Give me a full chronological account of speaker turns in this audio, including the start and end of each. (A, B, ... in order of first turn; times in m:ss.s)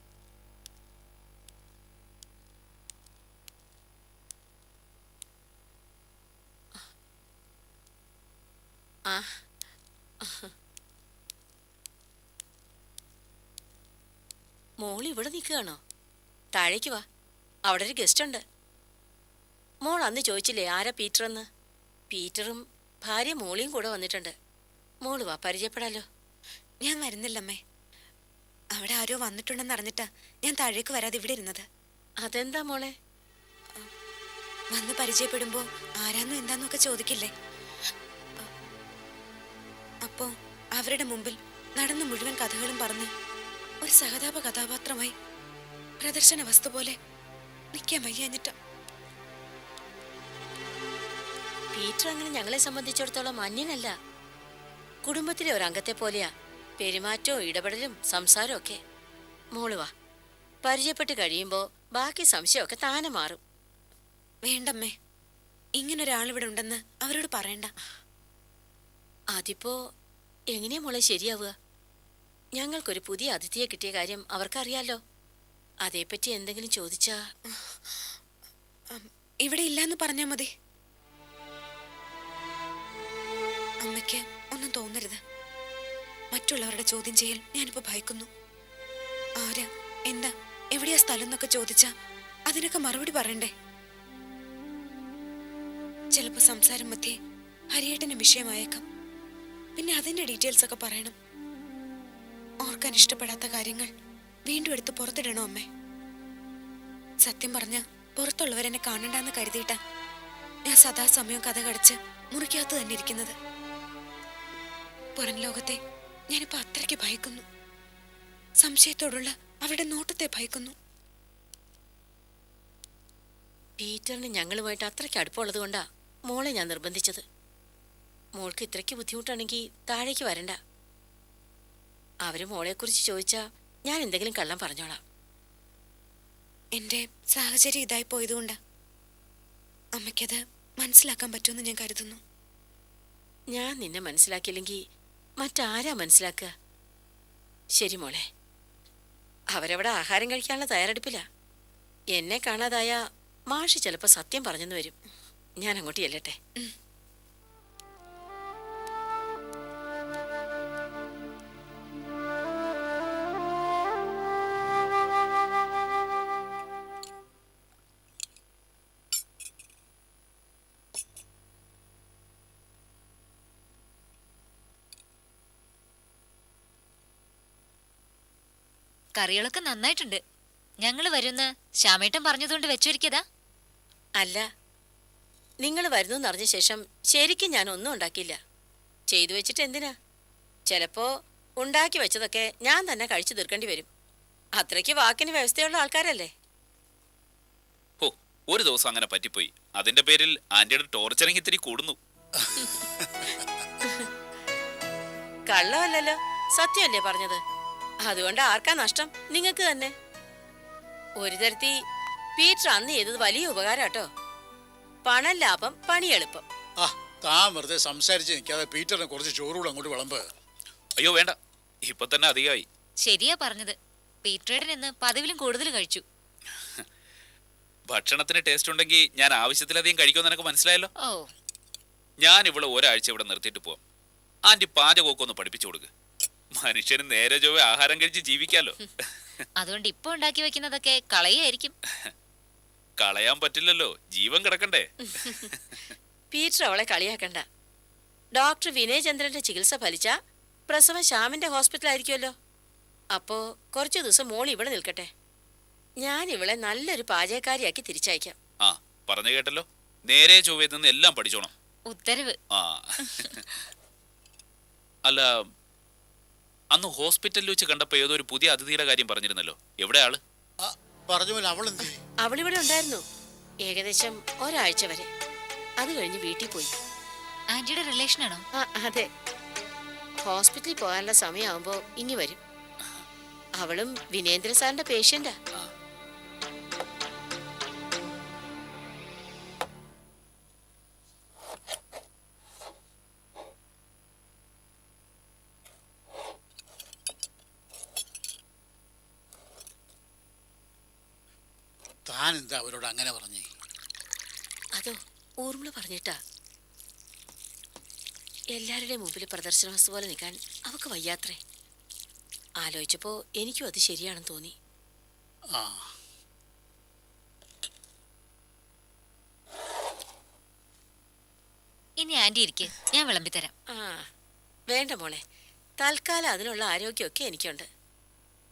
0:09.1-0:09.4 A
0:10.2-0:10.5 A
0:14.8-0:15.8 A
0:16.5-0:17.0 A
0:17.7-0:18.4 A
0:19.8-0:21.4 A
0:22.1-0:24.3 A
0:25.0-0:26.0 A
0:26.8-0:27.6 B
0:28.7-0:31.6 B
0:32.2-0:32.9 A
0:34.7-0:37.3 B
0:40.0-0:43.1 B
0:43.8-0:45.1 B
0:46.0-0:46.9 B
0:47.7-0:48.5 B
0:51.7-0:53.9 A
0:55.0-0:56.3 A
0:56.8-0:58.8 A
0:59.6-0:59.9 A
1:00.6-1:03.4 A
1:04.4-1:04.9 B
1:05.8-1:07.7 B
1:09.4-1:09.8 A
1:10.5-1:11.5 A
1:12.6-1:15.0 A
1:15.8-1:17.2 A
1:18.9-1:20.5 B
1:23.8-1:25.2 B
1:26.3-1:28.3 B
1:29.4-1:31.9 B
1:32.5-1:33.5 B
1:36.1-1:37.1 B
1:37.7-1:38.8 B
1:39.8-1:41.1 B
1:42.6-1:43.9 B
1:44.5-1:45.6 B
1:47.2-1:49.8 B
1:50.7-1:53.3 B
1:55.2-1:55.8 B
1:56.3-1:57.4 B
1:58.6-2:00.7 B
2:03.8-2:07.2 A
2:08.4-2:10.6 A
2:12.2-2:15.0 A
2:16.8-2:18.6 B
2:20.0-2:22.2 B
2:23.5-2:24.8 A
2:25.4-2:26.5 A
2:27.8-2:28.2 A
2:29.5-2:31.2 A
2:32.1-2:33.0 A
2:33.5-2:35.0 A
2:35.6-2:36.4 A
2:59.2-3:00.2 C
3:00.8-3:03.2 C
3:05.6-3:08.4 A
3:09.1-3:09.9 A
3:10.7-3:11.1 A
3:11.6-3:13.9 A
3:14.6-3:16.3 A
3:18.0-3:22.0 D
3:22.6-3:22.9 A
3:23.0-3:23.4 E
3:25.5-3:27.4 A
3:28.1-3:29.9 A
3:31.2-3:31.8 A
3:32.4-3:34.1 A
3:35.0-3:36.4 A
3:36.8-3:40.2 E
3:41.0-3:42.6 D
3:43.0-3:46.0 C
3:47.9-3:50.9 D
3:51.0-3:51.3 C
3:52.2-3:53.8 D
3:54.5-3:55.9 D
3:56.6-3:59.1 D
3:59.6-4:01.7 C
4:03.0-4:05.8 D
4:05.0-4:05.5 A
4:06.3-4:07.4 A
4:08.4-4:10.1 A
4:10.7-4:12.3 A
4:13.1-4:15.1 A
4:16.0-4:18.4 A
4:18.6-4:21.5 D
4:21.8-4:22.4 C
4:22.5-4:23.4 D
4:23.1-4:23.3 C
4:26.7-4:30.2 D
4:30.6-4:32.0 E
4:32.2-4:33.0 A
4:33.6-4:35.1 A
4:35.8-4:36.7 A
4:37.5-4:38.4 C
4:38.6-4:39.1 A
4:40.2-4:42.4 A
4:43.6-4:45.3 A
5:02.1-5:03.5 E
5:04.8-5:06.2 A
5:08.5-5:11.4 A
5:12.6-5:14.5 A
5:15.5-5:15.9 E
5:22.0-5:23.5 C
5:23.7-5:24.0 A
5:24.7-5:25.2 A
5:25.8-5:27.7 A